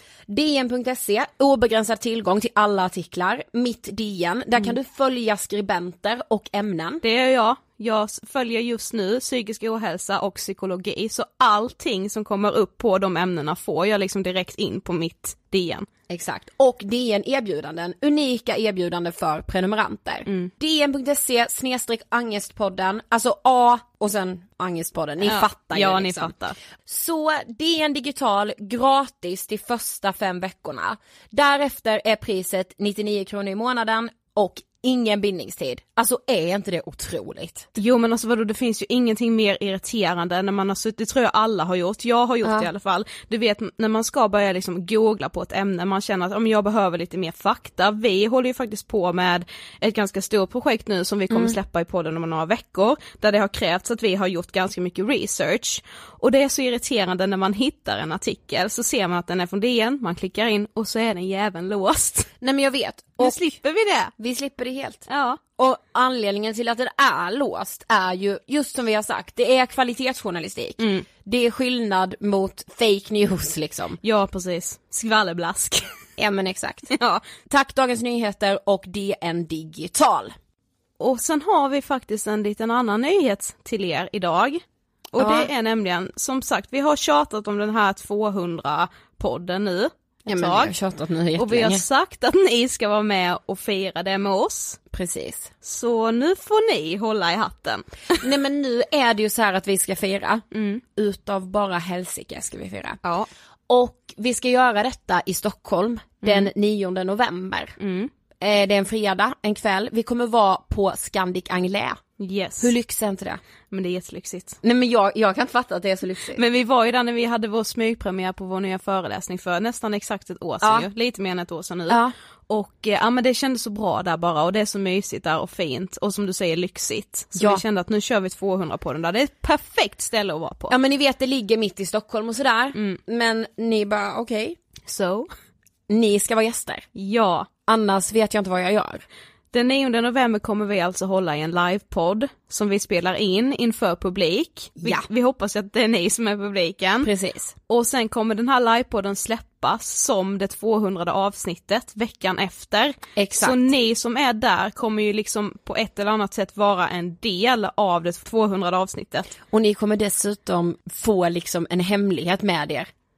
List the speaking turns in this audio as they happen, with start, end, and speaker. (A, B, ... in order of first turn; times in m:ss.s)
0:00.3-0:07.0 A
0:07.0-0:15.9 B
0:16.1-0:26.3 A
0:25.2-0:26.6 B
0:26.8-0:37.7 A
0:37.8-1:02.3 B
0:42.4-0:42.7 A
0:51.3-0:51.6 A
1:02.4-1:03.4 A
1:03.2-1:04.1 B
1:04.2-1:05.1 A
1:05.1-1:05.4 B
1:05.6-1:14.0 A
1:10.8-1:11.1 B
1:14.0-1:15.9 B
1:16.2-1:20.3 A
1:17.0-1:17.2 B
1:21.0-1:30.7 B
1:25.2-1:25.5 A
1:30.3-1:31.8 A
1:31.4-1:34.8 B
1:34.9-1:35.5 A
1:35.6-1:38.2 B
1:38.2-1:40.4 A
1:40.5-1:40.8 B
1:41.0-1:43.0 A
1:43.0-1:43.3 B
1:43.7-1:47.8 A
1:46.2-1:46.5 B
1:47.8-1:48.1 B
1:48.4-1:52.0 A
1:52.2-1:52.7 B
1:52.6-1:53.4 A
1:53.7-1:54.6 B
1:54.6-1:56.4 A
1:56.3-2:10.7 B
2:00.6-2:00.9 A
2:01.9-2:02.1 A
2:07.4-2:07.6 A
2:10.7-2:14.6 A
2:14.8-2:15.3 B
2:15.9-2:16.8 A
2:17.0-2:17.5 B
2:17.7-2:19.0 A
2:19.5-2:27.1 B
2:24.8-2:25.1 A
2:27.0-2:27.5 A
2:27.7-2:39.3 B
2:33.2-2:33.6 A
2:39.5-2:42.9 A